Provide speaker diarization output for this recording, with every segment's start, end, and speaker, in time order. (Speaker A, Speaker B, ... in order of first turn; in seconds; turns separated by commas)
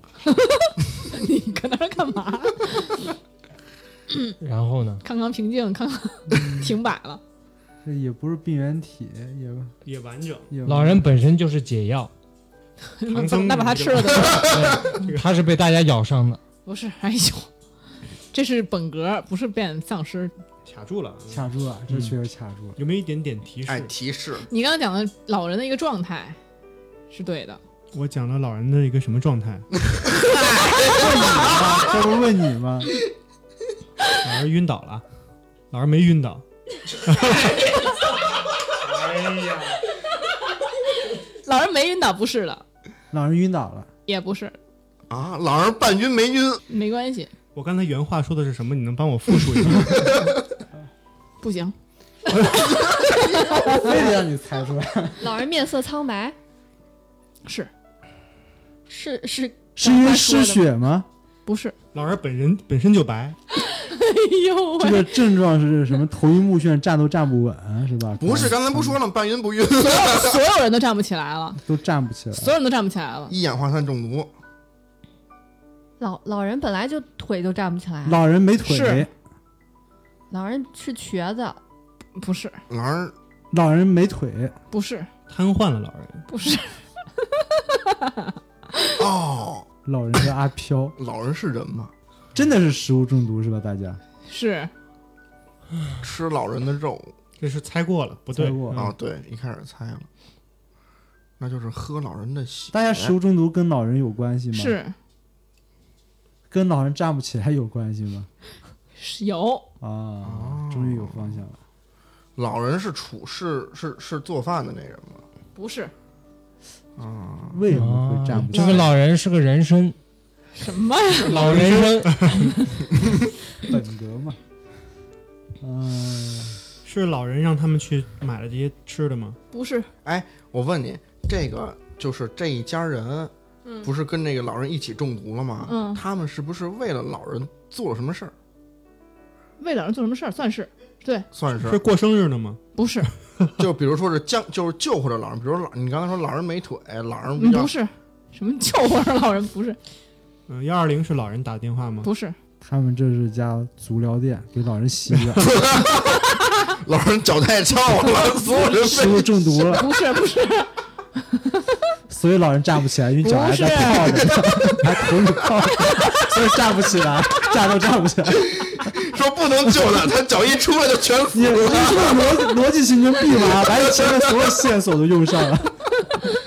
Speaker A: 0.2-3.1, Speaker B: 4.4-5.0, Speaker A: 5.0-7.2, Speaker C: 6.3-6.7, Speaker C: 7.8-9.7, Speaker D: 9.8-10.5, Speaker C: 10.5-11.1, Speaker B: 10.7-12.1, Speaker A: 13.0-14.5, Speaker D: 13.1-15.2, Speaker B: 14.4-16.4, Speaker A: 16.6-17.5, Speaker A: 18.3-20.3, Speaker D: 20.6-22.1, Speaker C: 21.3-22.8, Speaker D: 22.8-23.9, Speaker E: 23.7-24.5, Speaker A: 24.5-26.4, Speaker A: 27.1-27.6, Speaker D: 27.9-29.7, Speaker E: 30.2-30.9, Speaker C: 30.8-32.9, Speaker D: 34.1-35.0, Speaker D: 35.7-36.4, Speaker D: 37.0-37.7, Speaker D: 38.8-39.8, Speaker A: 41.4-42.6, Speaker C: 43.1-43.9, Speaker A: 44.1-44.5, Speaker E: 45.1-46.6, Speaker A: 46.7-47.3, Speaker D: 47.5-50.1, Speaker E: 49.9-50.3, Speaker A: 51.4-51.7, Speaker A: 52.7-53.9, Speaker C: 53.6-55.3, Speaker F: 55.2-56.4, Speaker A: 57.4-57.7, Speaker F: 58.9-60.7, Speaker C: 59.8-61.1, Speaker A: 61.5-61.7, Speaker D: 61.9-63.4, Speaker A: 63.5-65.2, Speaker C: 64.8-69.0, Speaker E: 68.2-70.4, Speaker A: 69.8-71.6, Speaker C: 71.6-72.5, Speaker A: 72.3-73.3, Speaker E: 73.3-74.3, Speaker F: 76.0-78.2, Speaker C: 78.0-79.1, Speaker A: 78.7-79.1, Speaker F: 80.3-81.6, Speaker A: 82.2-82.6, Speaker E: 82.7-83.1, Speaker C: 83.5-84.5, Speaker A: 84.7-85.1, Speaker D: 85.3-86.2, Speaker A: 86.3-86.8, Speaker A: 87.3-88.9, Speaker E: 89.0-89.7, Speaker C: 89.8-91.0, Speaker E: 91.0-91.9, Speaker C: 92.3-94.0, Speaker A: 94.3-94.7, Speaker E: 96.0-97.1, Speaker D: 97.4-98.9, Speaker C: 98.3-98.9, Speaker E: 98.7-100.1, Speaker E: 101.4-103.1, Speaker C: 102.7-104.8, Speaker A: 104.5-104.9, Speaker C: 106.5-108.3, Speaker A: 109.0-109.7, Speaker C: 109.8-111.6, Speaker E: 110.2-111.4, Speaker E: 112.4-115.2, Speaker A: 115.5-115.9, Speaker E: 117.0-117.6, Speaker C: 117.5-118.9, Speaker B: 117.7-120.0, Speaker A: 120.5-121.5, Speaker B: 121.3-122.5, Speaker D: 121.3-122.5, Speaker C: 123.6-124.4, Speaker C: 125.6-126.6, Speaker D: 126.8-129.4, Speaker A: 129.5-129.9, Speaker E: 130.0-138.3, Speaker A: 135.7-136.0, Speaker A: 139.6-141.3, Speaker E: 141.3-141.8, Speaker D: 141.6-142.6, Speaker A: 142.8-143.1, Speaker E: 143.6-147.7, Speaker A: 147.4-149.8, Speaker D: 150.5-152.1, Speaker A: 152.0-152.3, Speaker C: 152.6-155.5, Speaker E: 155.4-159.3, Speaker C: 158.7-159.9, Speaker A: 159.6-160.7, Speaker A: 161.3-161.8, Speaker C: 162.1-168.8, Speaker A: 163.2-164.4, Speaker E: 164.3-164.8, Speaker E: 168.5-172.3, Speaker C: 171.3-175.8